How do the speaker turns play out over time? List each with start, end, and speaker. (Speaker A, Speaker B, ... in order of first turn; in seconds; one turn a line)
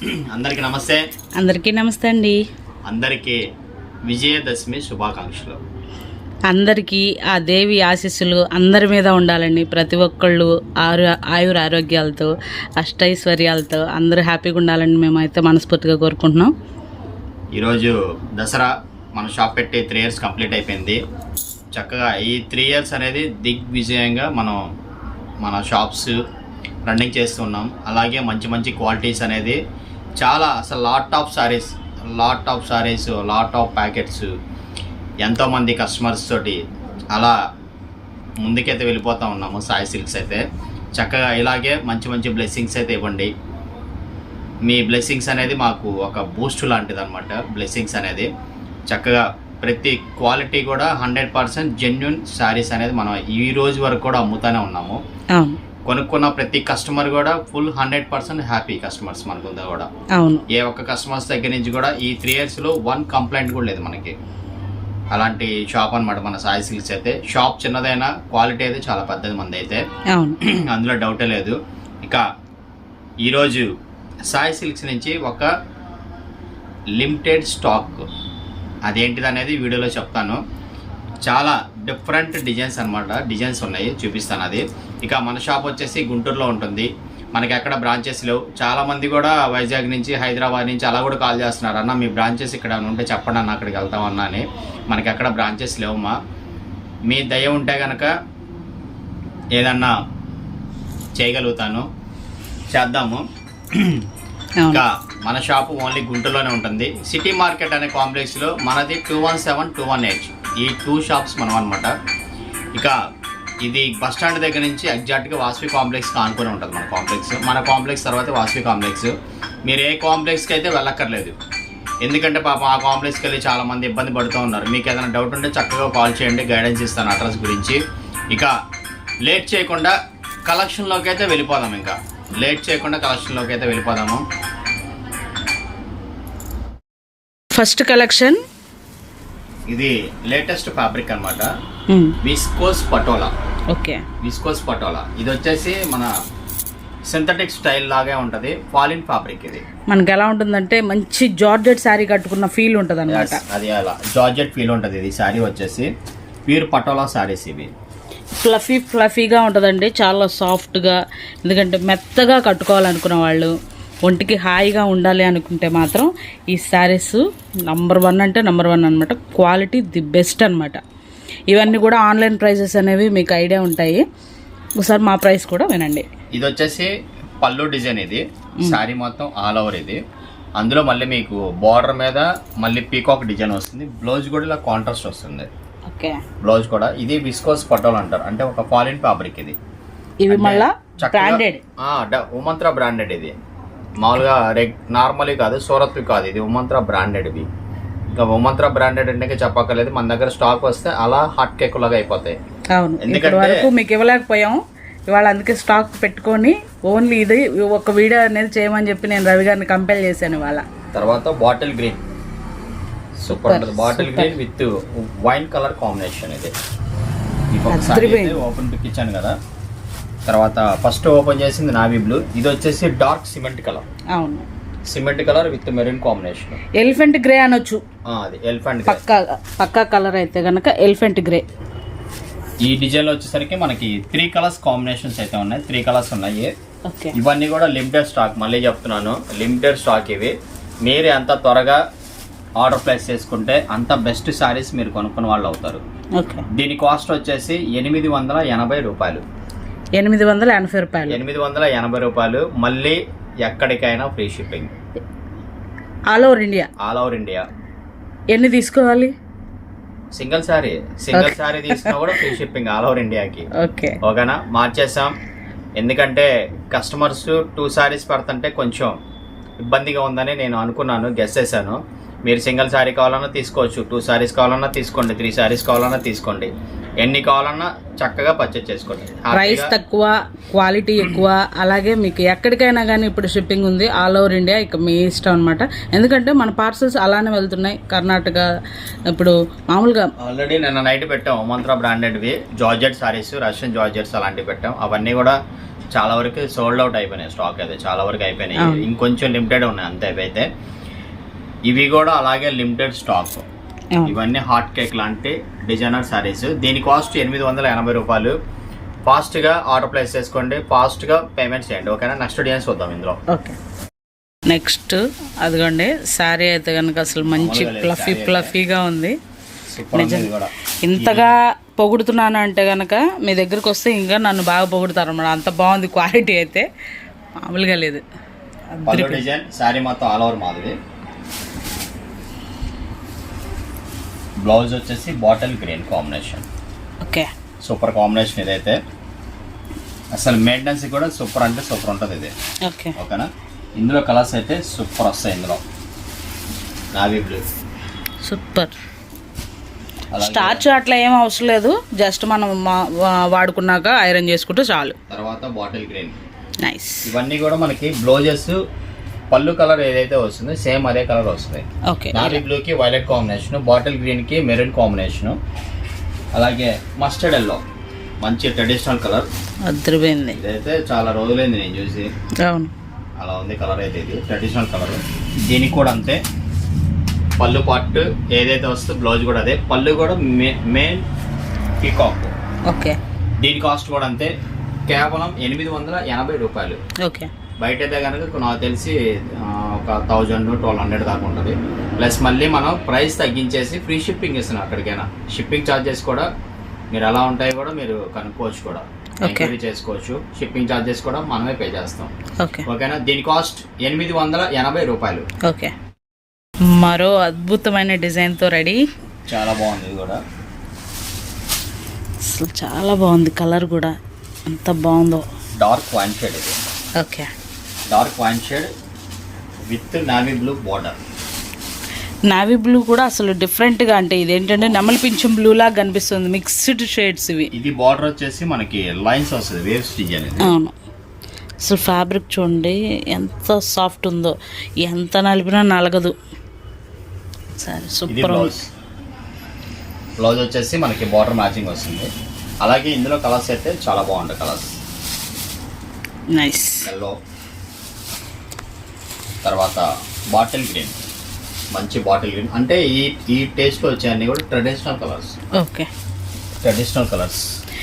Speaker A: 0.2-1.0
Speaker B: 1.4-2.4
Speaker A: 2.9-3.4
Speaker A: 4.1-5.6
Speaker B: 6.5-16.5
Speaker A: 17.5-21.0
Speaker A: 21.7-24.6
Speaker A: 25.4-26.1
Speaker A: 26.9-29.6
Speaker A: 30.2-34.3
Speaker A: 35.2-36.6
Speaker A: 38.4-40.4
Speaker A: 41.0-43.3
Speaker A: 44.6-48.3
Speaker A: 48.9-55.0
Speaker A: 55.9-59.9
Speaker B: 60.2-60.4
Speaker A: 60.5-64.1
Speaker A: 65.1-69.8
Speaker B: 70.1-70.4
Speaker A: 70.4-72.2
Speaker A: 73.2-73.7
Speaker A: 74.3-75.5
Speaker A: 77.0-78.0
Speaker A: 78.9-80.4
Speaker A: 81.2-96.1
Speaker A: 97.1-98.1
Speaker A: 99.5-99.9
Speaker A: 101.2-101.8
Speaker A: 102.7-103.2
Speaker A: 103.8-104.0
Speaker A: 104.7-111.9
Speaker A: 113.6-119.1
Speaker A: 119.7-121.3
Speaker A: 122.0-127.8
Speaker A: 129.2-129.9
Speaker A: 130.5-134.2
Speaker B: 137.5-138.4
Speaker A: 139.7-141.5
Speaker B: 141.9-142.1
Speaker A: 142.2-143.3
Speaker B: 143.7-144.0
Speaker A: 144.2-146.1
Speaker A: 147.1-149.6
Speaker B: 149.9-153.4
Speaker A: 153.1-155.9
Speaker A: 156.5-157.7
Speaker B: 158.4-163.5
Speaker B: 164.0-170.8
Speaker B: 171.5-174.0
Speaker B: 174.8-176.1
Speaker A: 176.3-180.0
Speaker A: 180.6-185.5
Speaker B: 185.9-186.2
Speaker A: 186.4-189.6
Speaker B: 190.2-191.6
Speaker A: 190.3-193.3
Speaker A: 194.0-197.5
Speaker A: 198.1-202.3
Speaker B: 202.7-210.7
Speaker A: 203.0-203.6
Speaker A: 210.9-212.0
Speaker A: 213.2-216.5
Speaker B: 213.3-214.3
Speaker A: 217.5-219.3
Speaker B: 217.7-218.4
Speaker A: 220.3-223.8
Speaker B: 224.1-224.5
Speaker A: 224.9-226.6
Speaker B: 226.8-227.8
Speaker A: 228.1-229.0
Speaker B: 228.8-231.4
Speaker A: 232.6-236.5
Speaker B: 236.8-237.1
Speaker A: 237.1-241.8
Speaker A: 242.6-245.8
Speaker B: 246.2-246.4
Speaker A: 246.5-249.2
Speaker B: 250.0-251.2
Speaker A: 251.1-254.7
Speaker B: 256.1-256.7
Speaker A: 256.8-257.4
Speaker B: 258.3-259.1
Speaker A: 260.1-263.5
Speaker B: 261.1-262.2
Speaker B: 263.6-264.0
Speaker A: 264.0-265.1
Speaker A: 265.8-268.9
Speaker A: 269.6-279.7
Speaker B: 279.3-288.5
Speaker B: 289.1-290.1
Speaker A: 290.2-295.4
Speaker A: 295.9-300.5
Speaker B: 298.6-298.8
Speaker A: 301.7-303.4
Speaker A: 304.0-308.3
Speaker A: 309.1-313.2
Speaker B: 313.3-313.6
Speaker B: 314.5-319.1
Speaker A: 317.3-318.5
Speaker A: 319.7-321.3
Speaker B: 319.9-320.3
Speaker B: 320.8-326.7
Speaker B: 327.4-328.0
Speaker B: 328.7-329.2
Speaker A: 328.9-330.7
Speaker A: 334.4-336.4
Speaker B: 337.0-337.3
Speaker A: 337.6-338.8
Speaker A: 340.1-342.3
Speaker B: 342.7-342.9
Speaker A: 343.0-345.6
Speaker A: 346.9-347.4
Speaker B: 348.2-348.7
Speaker A: 350.1-350.7
Speaker B: 350.1-354.9
Speaker A: 355.1-356.1
Speaker B: 356.6-357.1
Speaker A: 357.0-358.6
Speaker A: 359.3-365.4
Speaker B: 361.9-362.4
Speaker A: 366.3-367.6
Speaker A: 368.2-369.3
Speaker B: 369.6-370.4
Speaker A: 370.3-372.1
Speaker B: 372.4-372.7
Speaker A: 373.2-376.2
Speaker A: 377.4-381.1
Speaker A: 381.8-382.3
Speaker B: 382.7-383.0
Speaker A: 383.4-384.3
Speaker A: 384.9-386.8
Speaker B: 387.0-387.3
Speaker A: 387.6-396.3
Speaker A: 396.9-402.1
Speaker B: 399.2-399.5
Speaker A: 402.6-405.2
Speaker B: 405.4-405.7
Speaker B: 406.7-408.8
Speaker A: 409.3-410.2
Speaker B: 412.3-413.9
Speaker B: 414.5-415.2
Speaker A: 415.6-416.6
Speaker B: 417.0-417.3
Speaker A: 417.9-418.7
Speaker A: 419.7-421.0
Speaker B: 422.3-427.5
Speaker A: 427.5-430.5
Speaker B: 430.4-430.7
Speaker B: 431.6-436.1
Speaker B: 437.6-438.6
Speaker A: 438.1-438.7
Speaker A: 440.2-442.1
Speaker A: 442.6-444.7
Speaker B: 446.3-446.9
Speaker A: 446.8-447.1
Speaker A: 449.4-450.9
Speaker A: 451.7-455.4
Speaker B: 455.6-455.9
Speaker A: 456.6-457.4